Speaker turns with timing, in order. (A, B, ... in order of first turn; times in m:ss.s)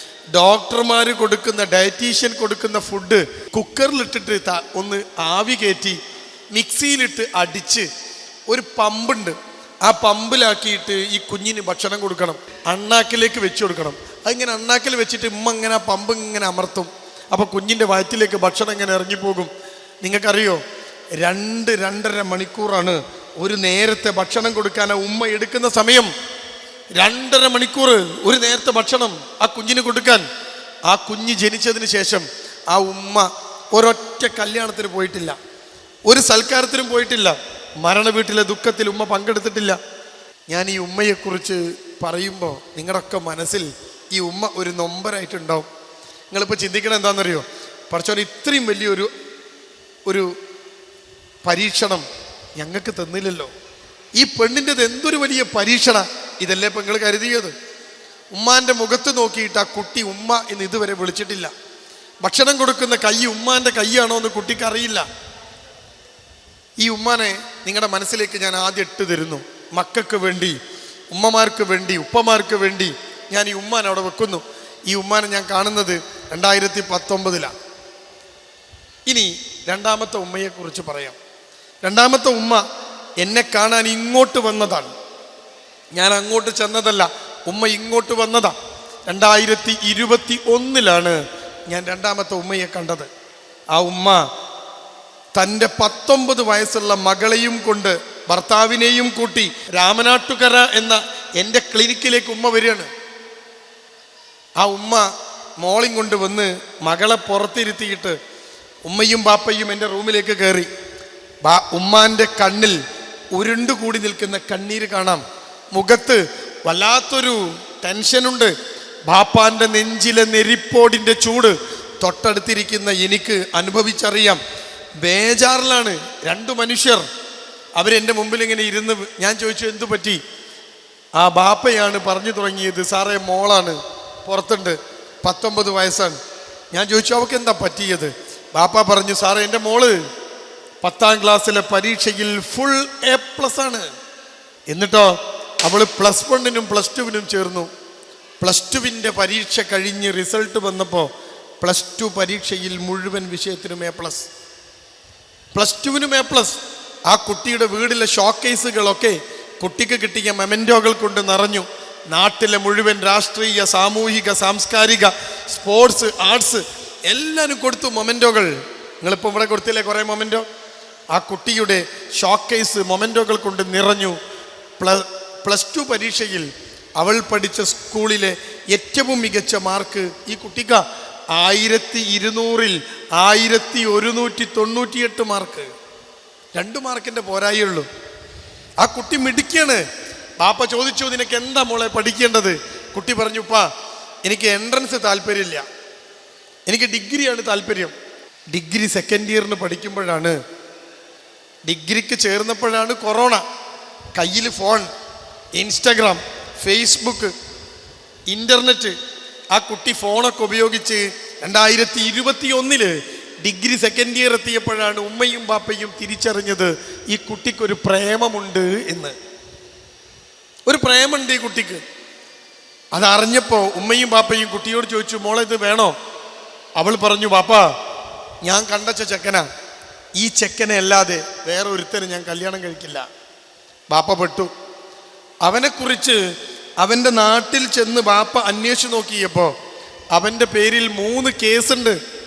0:00.3-0:06.0 A
0:06.5-0:07.9 A
0:08.5-0:19.5 A
0:20.0-0:20.6 A
0:21.2-0:26.1 A
0:27.0-0:30.2 A
0:30.9-0:35.4 A
0:36.1-0:39.8 A
0:40.5-0:45.7 A
0:46.3-0:49.1 A
0:50.1-0:50.3 A
0:51.4-0:52.1 A
0:52.6-0:53.5 A
0:54.2-0:57.5 A
0:58.3-1:01.5 A
1:02.2-1:05.1 A
1:06.8-1:10.6 A
1:11.1-1:17.5 A
1:19.1-1:21.2 A
1:21.8-1:22.6 A
1:23.2-1:24.9 A
1:26.0-1:28.6 A
1:29.1-1:31.2 A
1:31.7-1:33.1 A
1:33.7-1:34.2 A
1:35.4-1:42.9 A
1:44.6-1:45.1 A
1:45.6-1:48.2 A
1:48.8-1:50.7 A
1:51.4-1:52.8 A
1:53.3-1:58.5 A
1:59.1-2:04.4 A
2:05.0-2:07.1 A
2:07.8-2:10.2 A
2:11.2-2:16.2 A
2:16.7-2:20.0 A
2:20.8-2:23.9 A
2:24.7-2:27.7 A
2:28.4-2:31.1 A
2:31.6-2:34.3 A
2:35.6-2:50.4 A
2:51.1-2:54.2 A
2:54.8-3:05.7 A
3:06.6-3:07.9 A
3:08.8-3:09.8 A
3:10.4-3:13.7 A
3:14.2-3:15.6 A
3:16.7-3:17.9 A
3:18.5-3:20.4 A
3:21.7-3:23.4 A
3:24.2-3:24.9 A
3:25.6-3:27.3 A
3:28.3-3:29.0 A
3:29.5-3:39.2 A
3:40.7-3:41.8 A
3:42.9-3:46.0 A
3:46.8-3:47.7 A
3:48.4-3:49.5 A
3:50.2-3:53.1 A
3:53.9-3:54.5 A
3:55.4-3:56.2 A
3:56.8-3:59.5 A
4:00.1-4:02.0 A